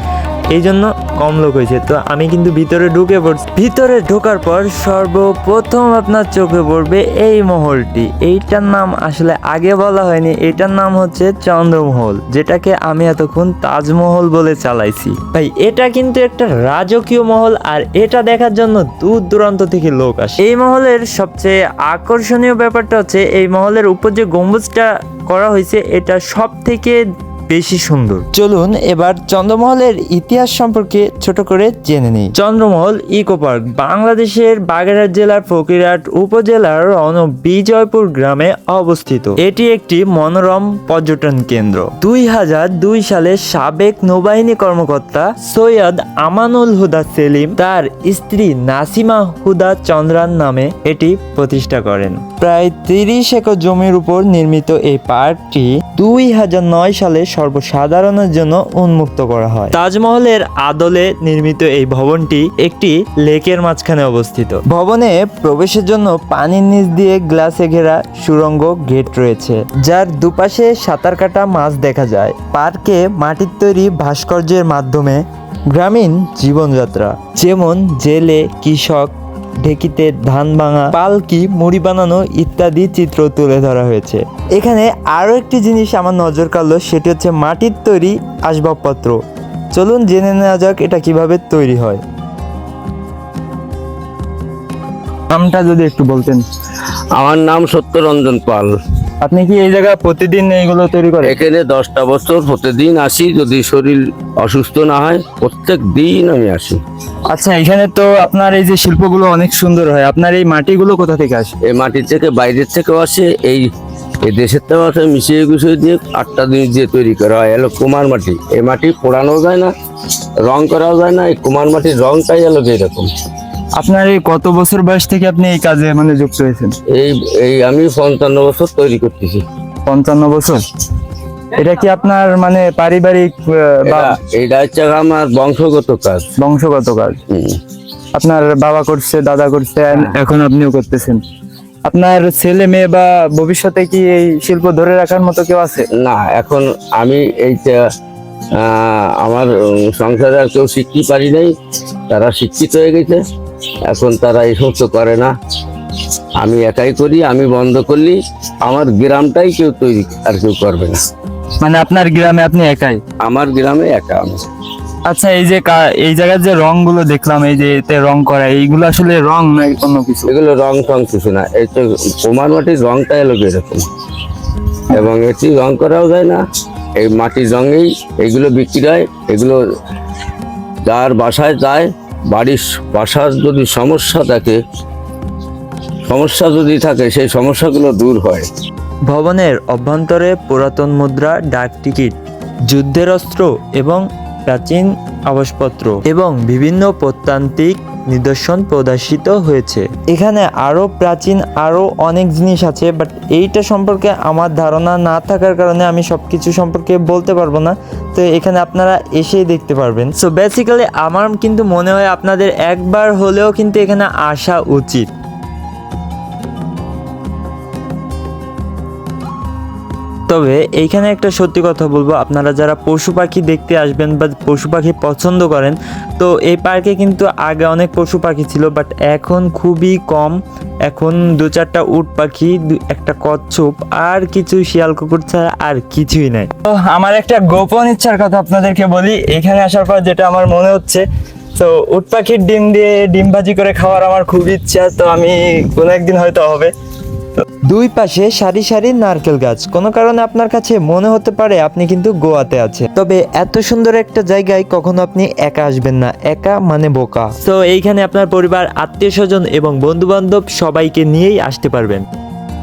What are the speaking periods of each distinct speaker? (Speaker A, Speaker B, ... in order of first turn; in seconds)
Speaker A: 0.5-89.2, 89.7-92.0, 189.1-192.1, 192.7-215.1, 220.3-236.5, 247.7-262.0
Speaker B: 95.3-96.4, 99.2-101.3, 107.3-111.5, 123.8-126.7, 129.8-130.6, 131.5-134.2, 136.4-137.2, 138.1-141.2, 141.8-145.9, 161.6-163.0, 165.1-170.3, 236.7-241.0, 241.6-246.7
Speaker C: 97.1-98.7, 101.2-106.8, 111.6-113.7, 114.2-119.7, 120.4-123.1, 126.9-129.4, 133.8-136.3, 137.3-137.6, 145.9-147.8, 148.5-151.5, 152.1-153.2, 153.8-155.3, 156.4-161.0, 163.2-164.5, 170.3-173.8, 174.9-176.4, 177.0-179.6, 180.8-184.6, 186.1-188.5